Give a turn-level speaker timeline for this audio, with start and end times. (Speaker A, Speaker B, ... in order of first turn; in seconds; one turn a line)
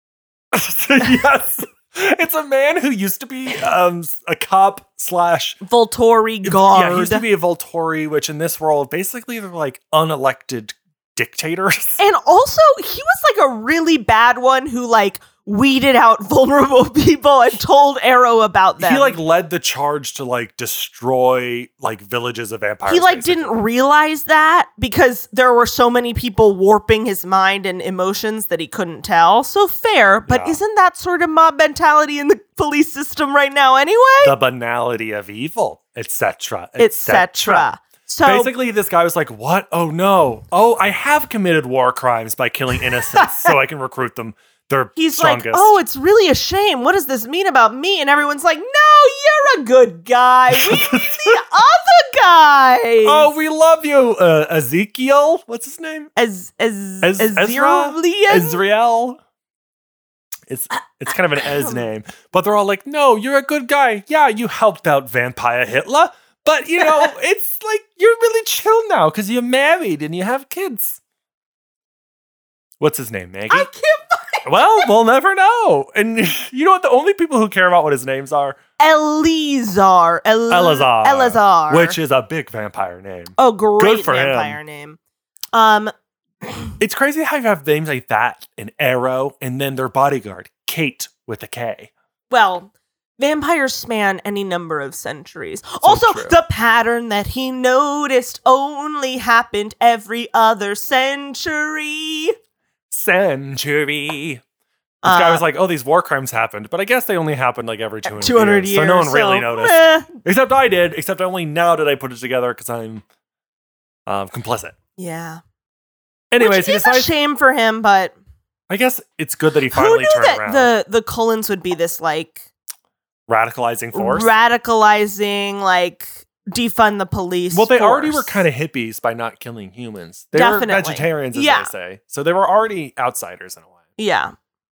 Speaker A: 0.5-5.6
Speaker B: 5.6-7.2
Speaker A: 6.4-12.0
Speaker B: 12.0-19.2
Speaker A: 18.8-23.6
Speaker B: 22.9-34.3
Speaker A: 30.3-30.6
Speaker A: 34.2-37.7
Speaker B: 36.8-38.5
Speaker A: 38.2-45.8
Speaker B: 43.1-43.5
Speaker B: 45.0-53.3
Speaker A: 50.5-51.4
Speaker A: 53.0-56.1
Speaker B: 56.1-58.6
Speaker A: 57.0-59.2
Speaker A: 60.5-71.0
Speaker B: 61.4-61.8
Speaker A: 72.8-73.7
Speaker B: 73.5-74.9
Speaker A: 74.4-78.6
Speaker B: 78.8-82.0
Speaker A: 80.5-84.6
Speaker B: 83.4-85.0
Speaker B: 85.5-85.9
Speaker B: 86.4-86.7
Speaker A: 86.8-91.9
Speaker B: 92.3-102.3
Speaker A: 95.8-96.4
Speaker A: 102.9-104.4
Speaker B: 105.0-105.4
Speaker A: 105.0-113.0
Speaker B: 108.0-110.1
Speaker A: 114.1-114.8
Speaker B: 115.0-115.4
Speaker A: 116.3-117.1
Speaker B: 116.4-118.1
Speaker A: 118.7-120.7
Speaker B: 119.7-122.4
Speaker A: 123.3-124.3
Speaker B: 123.9-128.4
Speaker A: 127.5-133.8
Speaker B: 130.3-131.7
Speaker B: 134.0-134.3